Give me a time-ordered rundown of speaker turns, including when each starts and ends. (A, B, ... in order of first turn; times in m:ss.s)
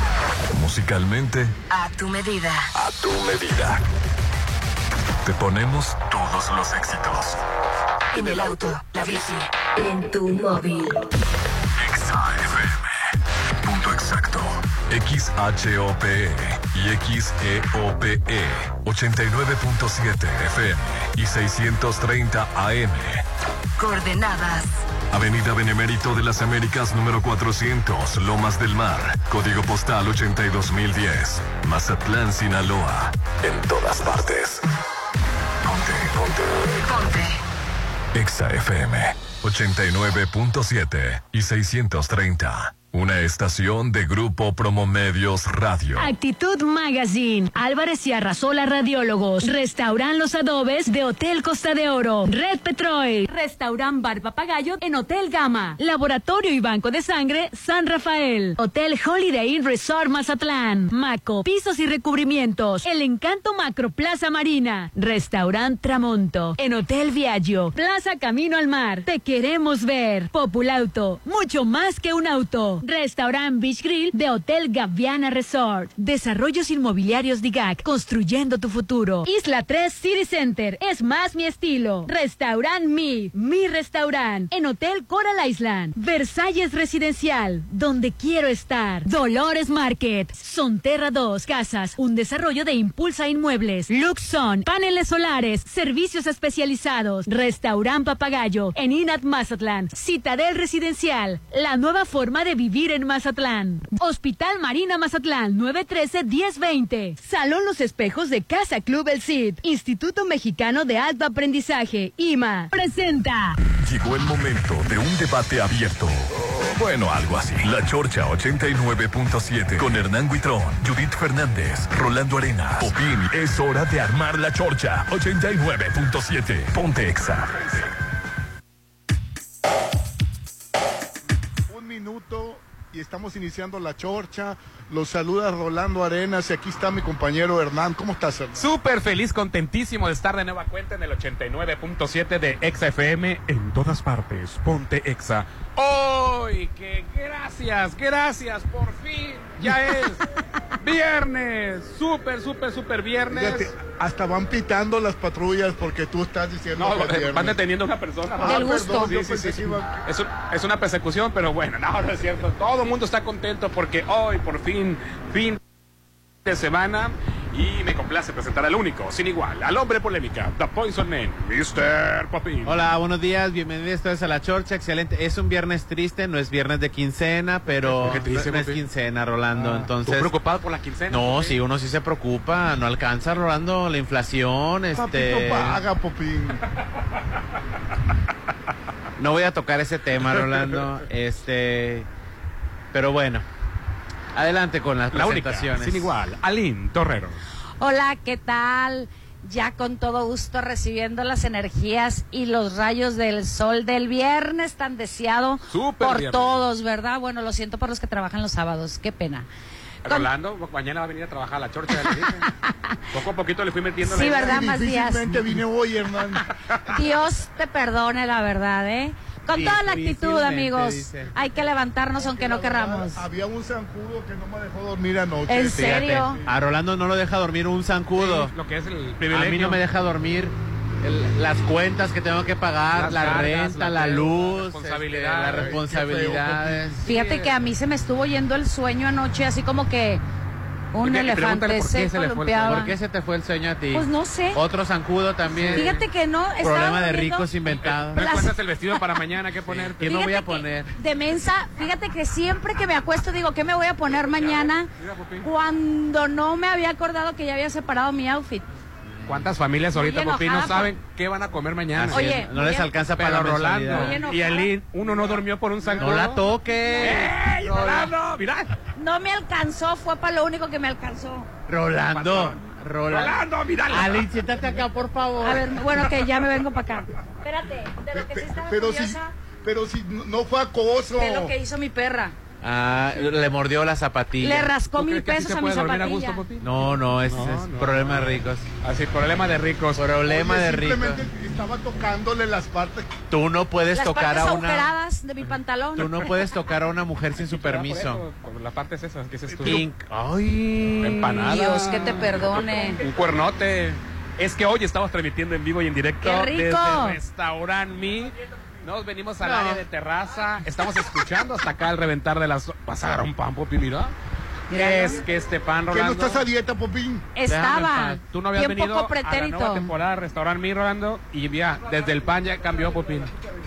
0:00.5-0:01.5 A
0:01.7-0:02.7 B
0:02.8-0:03.8 A
0:05.2-0:07.4 A
0:08.1-0:10.9 B
0:11.8-0:12.8 A
0:13.6-0:23.2 A
0:23.8-0:24.8 B
0:25.1-0:34.6 A
0:35.6-0:36.7 A
0:36.8-0:37.4 B
0:38.1-0:46.1 A
0:46.0-1:53.6 C
1:53.8-2:07.8 A
2:11.7-2:18.7 D
2:18.6-2:30.2 E
2:30.8-2:33.7 E
2:33.3-2:37.6 D
2:36.8-2:45.6 E
2:38.4-2:39.9 D
2:38.4-2:39.1 F
2:46.4-2:52.8 E
2:52.6-3:00.3 G
2:57.8-2:58.8 E
2:59.5-3:01.6 E
3:01.1-3:05.8 G
3:05.0-3:06.6 D
3:09.2-3:12.1 G
3:12.9-3:13.4 G
3:14.3-3:16.1 G
3:15.1-3:17.4 E
3:17.8-3:29.5 F
3:25.7-3:26.6 E
3:30.0-3:32.5 E
3:33.1-3:34.7 E
3:34.0-3:35.6 F
3:34.3-3:36.5 D
3:36.9-3:43.2 F
3:39.5-3:41.3 G
3:42.2-3:46.2 D
3:45.5-3:46.4 F
3:45.7-3:48.5 G
3:48.1-3:49.8 E
3:49.2-3:57.0 G
3:52.9-3:55.8 E
3:55.5-3:56.8 D
3:57.0-3:57.6 E
3:57.0-4:00.2 F
4:00.9-4:02.9 F
4:01.0-4:02.9 E
4:02.6-4:06.0 G
4:03.9-4:04.6 F
4:05.5-4:05.9 E
4:05.7-4:07.5 F
4:06.6-4:08.3 G
4:07.8-4:10.2 E
4:08.1-4:08.5 F
4:09.6-4:10.9 G
4:10.0-4:14.9 F
4:15.0-4:15.4 E
4:15.4-4:18.7 F
4:19.1-4:19.5 G
4:19.2-4:22.4 E
4:19.9-4:20.9 F
4:21.9-4:24.2 G
4:22.1-4:22.9 F
4:23.2-4:26.4 E
4:23.9-4:24.7 F
4:26.0-4:28.1 G
4:26.7-4:27.2 F
4:27.0-4:28.8 E
4:29.0-4:31.5 F
4:31.7-4:35.8 G
4:32.1-4:34.3 E
4:35.4-4:39.3 F
4:38.1-4:41.5 D
4:41.2-4:42.3 F
4:42.6-4:44.7 G
4:44.4-4:46.4 F
4:44.9-4:50.1 E
4:46.6-4:48.6 G
4:49.9-4:51.2 G
4:50.2-4:53.1 D
4:53.3-4:54.9 G
4:53.9-4:56.3 F
4:56.0-4:58.2 G
4:57.4-4:59.8 E
4:59.5-4:59.8 D
4:59.6-5:01.3 G
5:01.0-5:14.1 E
5:01.3-5:03.0 F
5:06.2-5:07.2 F
5:09.4-5:09.8 G
5:14.7-5:15.2 F
5:14.7-5:16.4 E
5:15.9-5:17.2 D
5:17.3-5:19.9 F
5:17.5-5:23.3 E